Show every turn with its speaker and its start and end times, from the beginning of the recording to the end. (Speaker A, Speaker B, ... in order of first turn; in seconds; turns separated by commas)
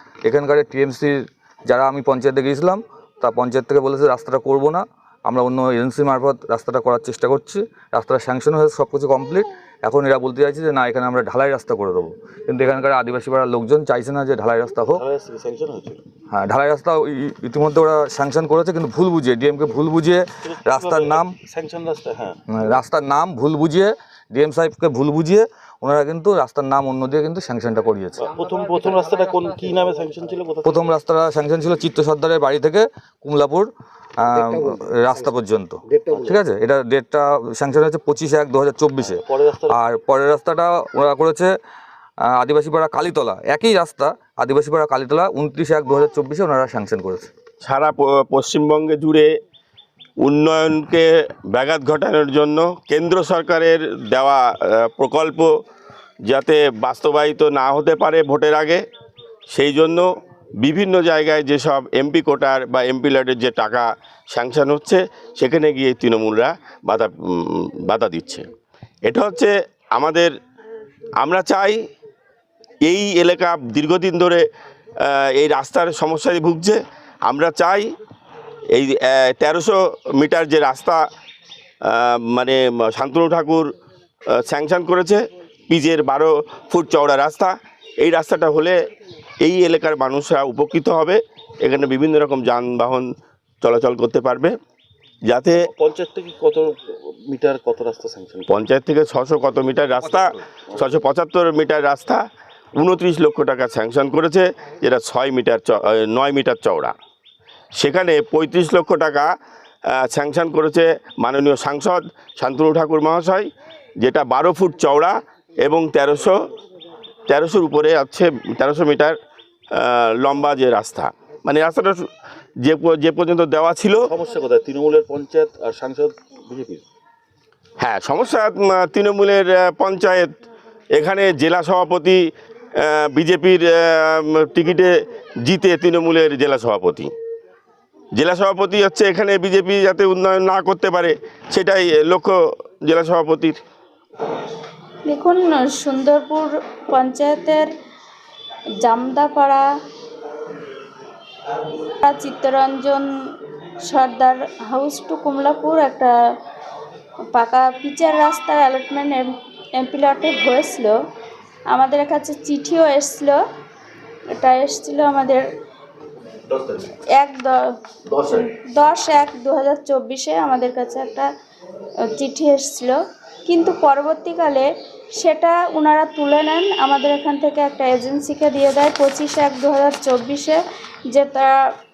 Speaker A: 0.2-15.0, Speaker B: 14.9-16.0, Speaker A: 16.3-21.3, Speaker B: 20.5-22.4, Speaker A: 22.5-28.3, Speaker B: 28.2-30.9, Speaker A: 30.6-33.7, Speaker A: 34.2-41.5, Speaker B: 39.0-39.7, Speaker A: 42.3-47.3, Speaker C: 47.6-49.3, Speaker C: 50.2-55.5, Speaker C: 56.3-58.8, Speaker C: 59.5-60.0, Speaker C: 60.6-68.4, Speaker C: 69.0-70.3, Speaker C: 71.2-71.8, Speaker C: 72.8-74.4, Speaker C: 75.0-77.8, Speaker C: 78.7-81.0, Speaker C: 81.9-83.7, Speaker C: 84.4-88.7, Speaker C: 89.4-93.1, Speaker C: 93.6-94.5, Speaker C: 95.3-95.6, Speaker B: 95.5-96.7, Speaker B: 97.3-98.6, Speaker C: 98.5-102.2, Speaker C: 102.8-106.9, Speaker C: 107.8-109.3, Speaker C: 110.0-113.5, Speaker C: 114.0-116.3, Speaker C: 117.3-119.1, Speaker C: 119.8-122.0, Speaker C: 122.6-124.1, Speaker B: 124.0-126.8, Speaker C: 127.8-130.3, Speaker C: 130.9-132.2, Speaker C: 132.8-134.9, Speaker C: 135.4-137.1, Speaker C: 138.2-142.3, Speaker C: 142.8-143.6, Speaker D: 145.1-147.7, Speaker D: 148.8-149.6, Speaker D: 152.0-153.1, Speaker D: 153.9-156.1, Speaker D: 157.3-160.9, Speaker D: 161.7-163.4, Speaker D: 164.4-165.4, Speaker B: 166.5-166.9, Speaker D: 167.2-167.6, Speaker B: 168.1-168.5, Speaker D: 168.3-171.3, Speaker D: 172.1-180.6, Speaker D: 181.1-181.5